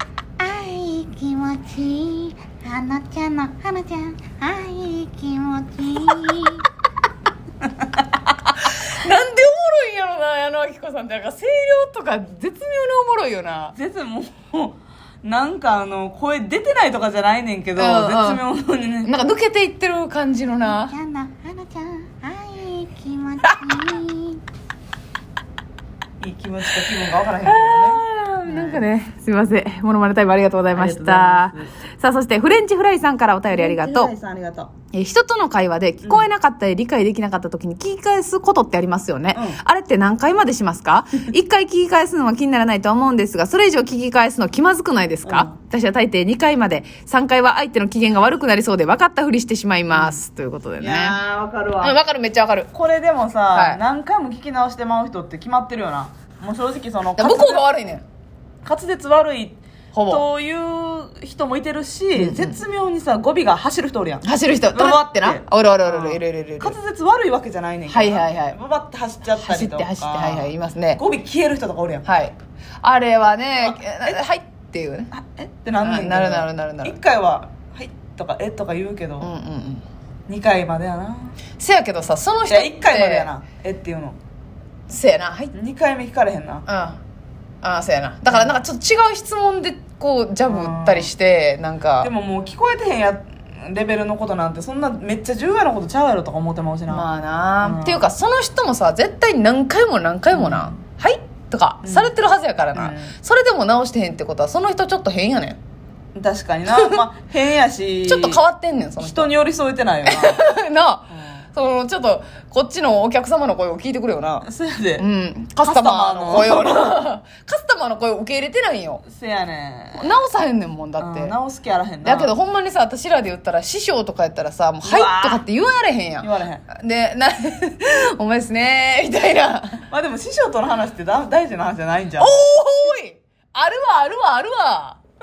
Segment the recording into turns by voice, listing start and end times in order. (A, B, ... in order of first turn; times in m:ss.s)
0:00.4-0:06.6 A
0:08.5-0:13.8 B
0:13.7-0:19.1 C
0:17.8-0:18.4 B
0:19.0-0:21.0 B
0:20.7-0:24.4 A
0:23.4-0:24.0 B
0:26.2-0:28.9 C
0:27.4-0:34.1 B
0:30.7-0:31.8 C
0:33.5-0:34.7 C
0:34.9-0:51.2 B
0:39.3-0:39.6 C
0:45.2-0:45.5 C
0:49.9-0:50.2 C
0:50.8-0:52.0 C
0:51.8-0:52.7 B
0:52.7-0:57.7 C
0:53.5-0:53.8 B
0:57.2-0:58.0 B
0:58.6-1:12.0 C
0:59.9-1:00.2 B
1:02.1-1:02.6 B
1:04.2-1:06.8 B
1:07.9-1:08.6 B
1:09.4-1:11.0 B
1:12.0-1:15.1 B
1:13.6-1:14.2 C
1:15.1-1:19.3 C
1:15.8-1:17.0 B
1:19.2-1:19.8 B
1:20.3-1:21.4 C
1:21.6-1:23.3 B
1:22.5-1:24.2 C
1:24.9-1:25.5 B
1:25.5-1:26.6 C
1:26.7-1:27.0 B
1:27.6-1:32.1 B
1:28.3-1:28.6 C
1:30.4-1:31.1 C
1:32.0-1:37.1 C
1:36.9-1:45.6 B
1:37.6-1:38.1 C
1:40.3-1:40.8 C
1:41.8-1:42.1 C
1:42.7-1:43.1 C
1:46.1-1:48.4 C
1:46.7-1:47.0 B
1:48.0-1:49.3 B
1:49.0-1:50.5 C
1:50.0-1:54.5 B
1:54.4-1:55.0 C
1:55.0-1:59.0 B
1:55.6-1:56.9 C
1:59.0-2:00.0 C
2:00.0-2:01.3 B
2:01.0-2:02.3 C
2:02.0-2:09.8 B
2:04.8-2:05.4 C
2:06.2-2:06.6 C
2:09.9-2:12.5 C
2:12.2-2:15.0 B